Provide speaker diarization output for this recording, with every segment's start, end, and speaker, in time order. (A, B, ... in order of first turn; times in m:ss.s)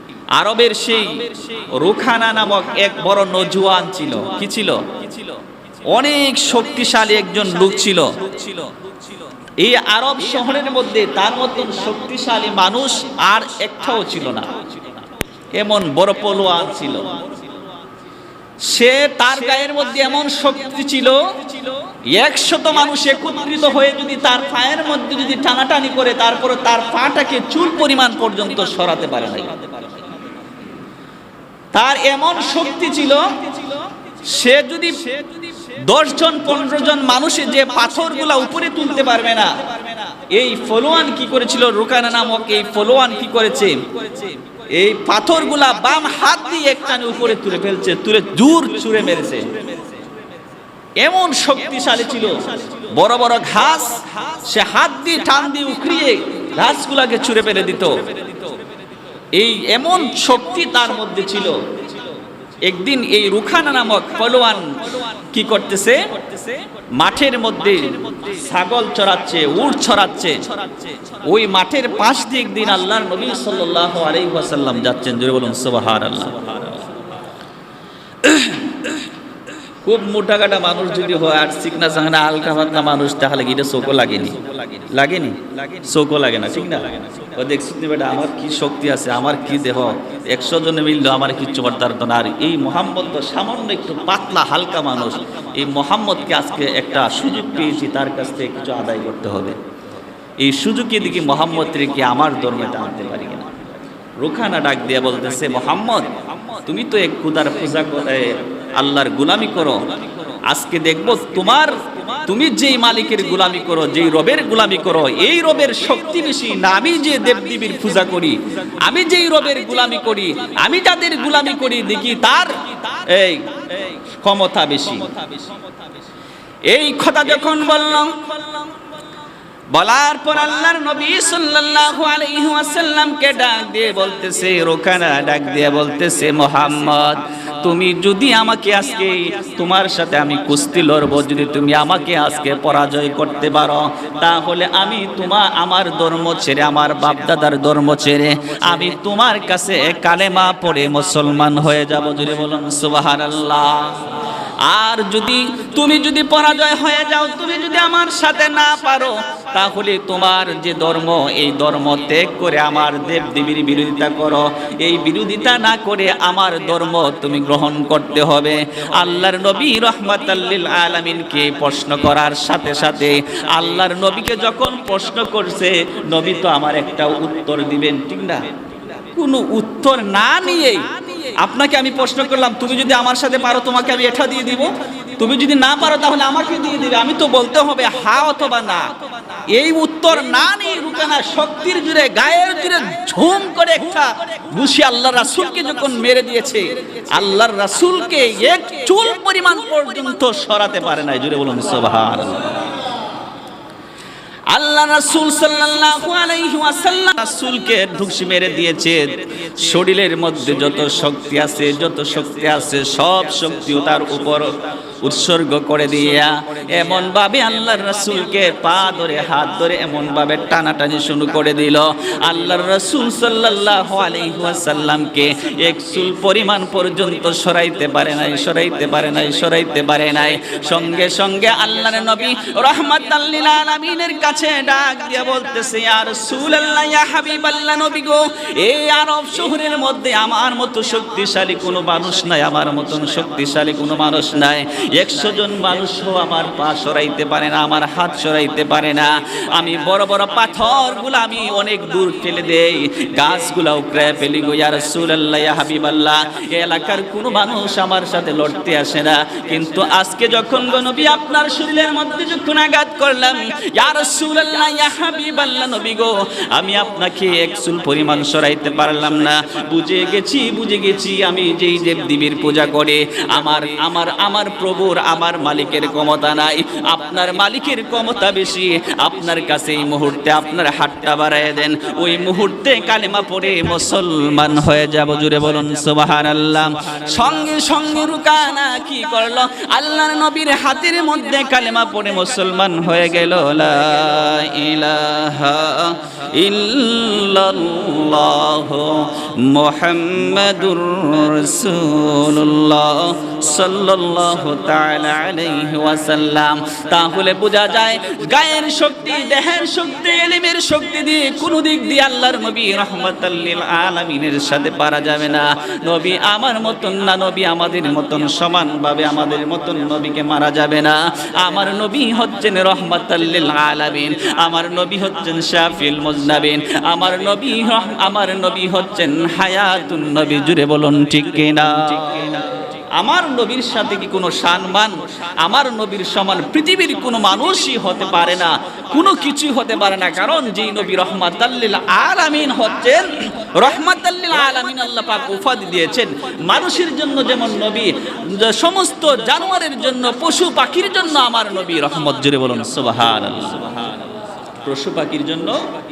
0:00.3-0:05.4 A
0:05.9-0:08.8 A
0:09.6-0:15.0 A
0:15.6-0:17.4 A
0:18.6-0:30.0 A
0:31.7-0:49.8 A
0:51.0-0:58.5 A
0:59.3-1:02.0 A
1:02.6-1:17.0 A
1:18.2-1:18.6 A
1:19.8-1:39.6 A
1:40.4-2:05.4 A
2:06.7-2:08.7 A
2:09.7-3:22.8 A
3:24.5-5:55.8 A